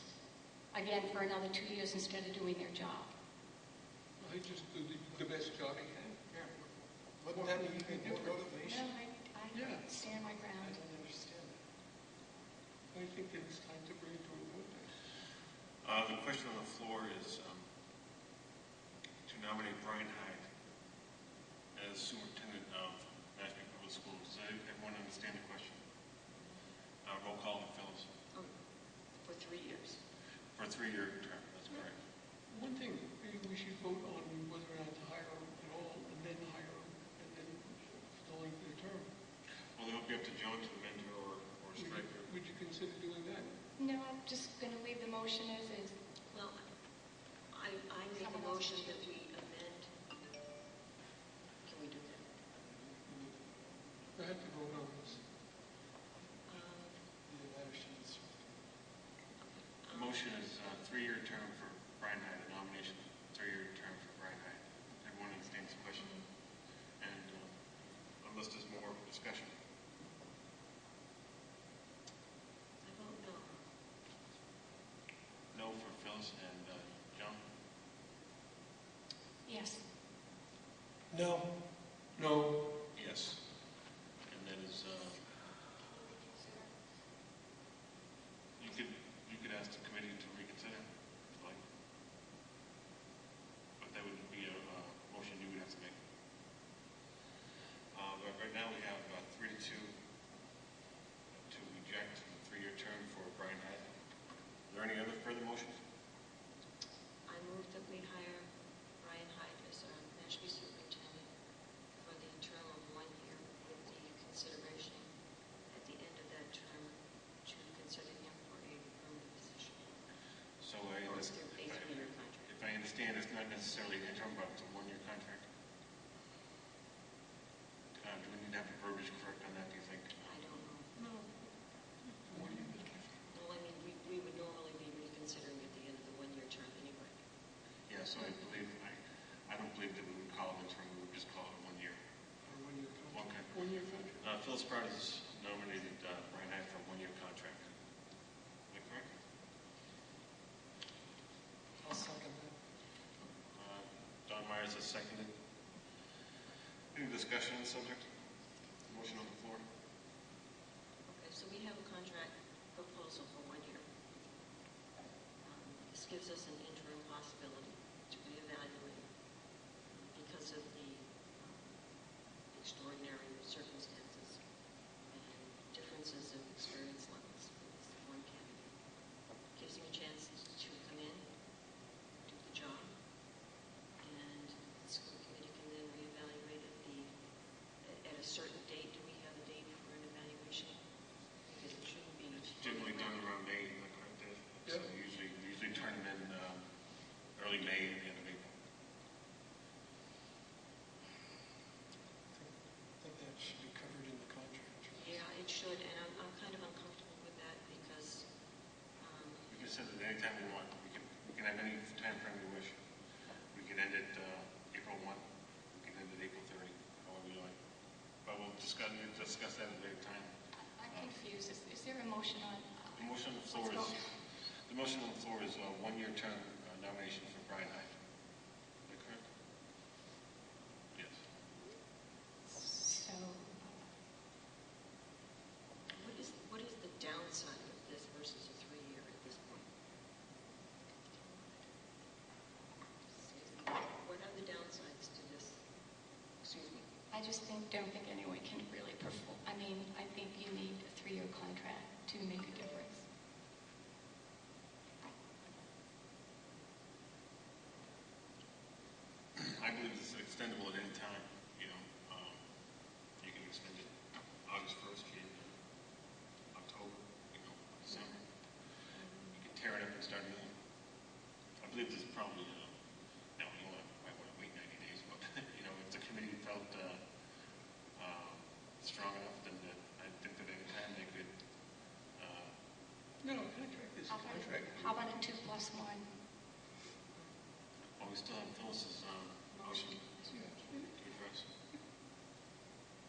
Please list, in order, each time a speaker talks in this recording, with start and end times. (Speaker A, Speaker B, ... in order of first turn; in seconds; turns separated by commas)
Speaker A: 0.7-3.1, Speaker B: 4.2-6.2, Speaker C: 7.2-8.9, Speaker B: 7.3-8.4, Speaker A: 8.6-10.8, Speaker B: 9.5-9.9, Speaker C: 10.1-11.6, Speaker B: 12.9-14.9, Speaker D: 15.8-17.7, Speaker D: 19.3-20.4, Speaker D: 21.8-25.8, Speaker D: 27.1-28.1, Speaker E: 29.2-30.0, Speaker D: 30.6-31.9, Speaker B: 32.5-39.1, Speaker D: 39.8-42.3, Speaker B: 41.8-43.6, Speaker A: 43.8-45.9, Speaker E: 46.3-46.6, Speaker E: 47.5-50.0, Speaker A: 48.1-49.0, Speaker E: 51.6-52.3, Speaker B: 54.1-55.3, Speaker E: 56.5-57.0, Speaker C: 57.3-58.6, Speaker E: 59.5-60.1, Speaker D: 59.9-66.2, Speaker D: 67.0-67.5, Speaker D: 68.2-69.5, Speaker E: 72.8-73.5, Speaker D: 75.5-77.4, Speaker A: 79.5-79.8, Speaker C: 81.1-81.5, Speaker C: 82.2-82.7, Speaker D: 83.0-83.4, Speaker D: 84.3-85.2, Speaker D: 88.6-90.8, Speaker D: 93.8-96.0, Speaker D: 97.9-99.9, Speaker D: 101.5-103.8, Speaker D: 104.7-105.8, Speaker E: 107.3-108.5, Speaker E: 109.0-111.3, Speaker E: 112.0-115.1, Speaker E: 115.7-116.9, Speaker E: 117.5-120.0, Speaker D: 120.6-125.5, Speaker E: 121.0-122.5, Speaker D: 128.0-130.2, Speaker E: 130.2-130.9, Speaker B: 131.0-131.5, Speaker B: 132.1-133.2, Speaker E: 133.3-137.2, Speaker D: 137.9-142.0, Speaker C: 142.5-143.3, Speaker B: 142.5-142.9, Speaker D: 143.1-143.6, Speaker B: 143.5-144.2, Speaker D: 144.2-147.7, Speaker D: 148.7-149.1, Speaker C: 151.8-152.5, Speaker D: 153.5-155.3, Speaker D: 156.9-158.1, Speaker D: 158.8-159.6, Speaker E: 161.1-164.1, Speaker E: 165.4-169.1, Speaker E: 170.1-171.7, Speaker E: 172.5-174.4, Speaker E: 175.1-178.7, Speaker E: 179.6-181.2, Speaker E: 182.3-182.9, Speaker E: 184.0-187.1, Speaker E: 187.8-190.8, Speaker E: 191.5-193.3, Speaker D: 192.5-196.6, Speaker D: 197.4-198.5, Speaker C: 202.3-205.1, Speaker E: 204.9-208.3, Speaker E: 209.0-209.4, Speaker D: 209.5-212.8, Speaker D: 213.5-215.2, Speaker D: 215.7-217.6, Speaker D: 218.2-220.3, Speaker A: 220.7-224.0, Speaker D: 222.9-224.1, Speaker D: 224.7-227.9, Speaker D: 228.9-229.2, Speaker A: 232.5-233.8, Speaker E: 235.9-239.7, Speaker E: 243.3-245.6, Speaker E: 246.4-246.9, Speaker A: 247.1-253.1, Speaker D: 259.4-262.4, Speaker D: 263.2-263.9, Speaker D: 264.4-265.6, Speaker D: 266.5-268.2, Speaker E: 269.0-269.3, Speaker D: 269.4-270.5, Speaker D: 271.6-272.8, Speaker D: 273.4-277.0, Speaker D: 278.0-281.3, Speaker D: 282.2-282.5, Speaker B: 283.2-285.1, Speaker A: 284.1-286.1, Speaker D: 288.0-290.1, Speaker A: 289.5-290.4, Speaker B: 290.3-290.9, Speaker D: 290.9-291.5